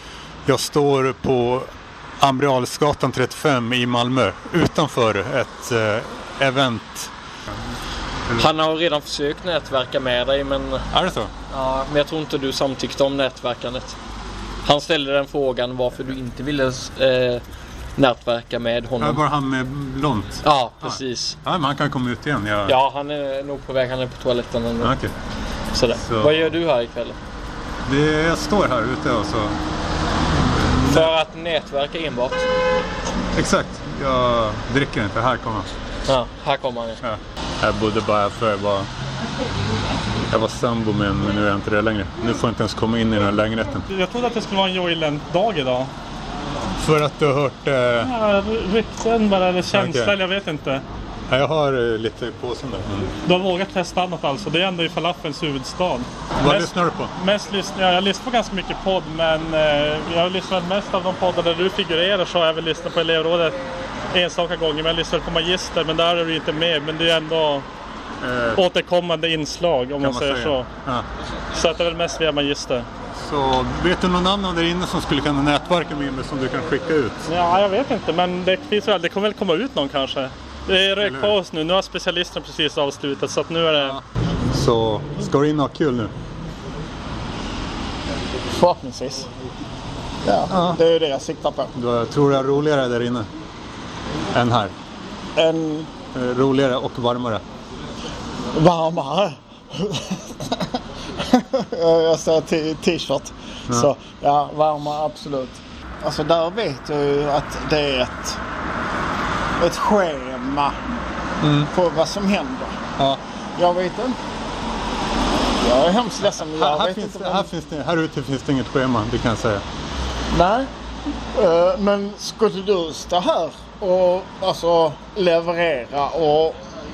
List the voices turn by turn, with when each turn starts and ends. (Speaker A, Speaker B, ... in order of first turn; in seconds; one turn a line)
Speaker A: 0.5-1.7
Speaker A: 2.2-7.1
Speaker B: 8.3-10.8
Speaker A: 10.9-11.3
Speaker B: 11.5-13.9
Speaker B: 14.6-17.4
Speaker B: 17.9-19.2
Speaker A: 19.0-22.8
Speaker B: 20.4-21.4
Speaker B: 22.6-24.9
Speaker A: 24.8-25.1
Speaker B: 25.7-27.2
Speaker A: 25.9-26.5
Speaker A: 27.8-29.6
Speaker B: 30.9-32.5
Speaker A: 33.3-35.7
Speaker B: 36.1-37.0
Speaker A: 37.0-38.9
Speaker A: 40.3-43.9
Speaker C: 43.9-45.9
Speaker A: 46.8-48.1
Speaker C: 48.0-50.8
Speaker A: 49.7-50.1
Speaker A: 51.3-53.1
Speaker C: 53.2-63.6
Speaker A: 56.4-57.1
Speaker C: 64.1-67.7
Speaker A: 68.2-68.6
Speaker C: 68.5-70.7
Speaker A: 70.0-71.0
Speaker C: 71.5-72.9
Speaker A: 73.2-77.2
Speaker C: 77.2-84.0
Speaker A: 81.0-81.3
Speaker A: 83.8-86.1
Speaker D: 88.5-89.3
Speaker D: 90.2-91.7
Speaker A: 90.5-90.8
Speaker A: 91.7-93.3
Speaker A: 94.3-94.7
Speaker D: 95.3-95.9
Speaker A: 96.1-97.4
Speaker D: 98.5-108.4
Speaker D: 109.6-110.8
Speaker A: 111.4-111.7
Speaker D: 111.7-112.7
Speaker D: 113.5-114.2
Speaker D: 115.6-117.5
Speaker A: 116.2-119.6
Speaker D: 120.3-120.7
Speaker D: 121.3-126.6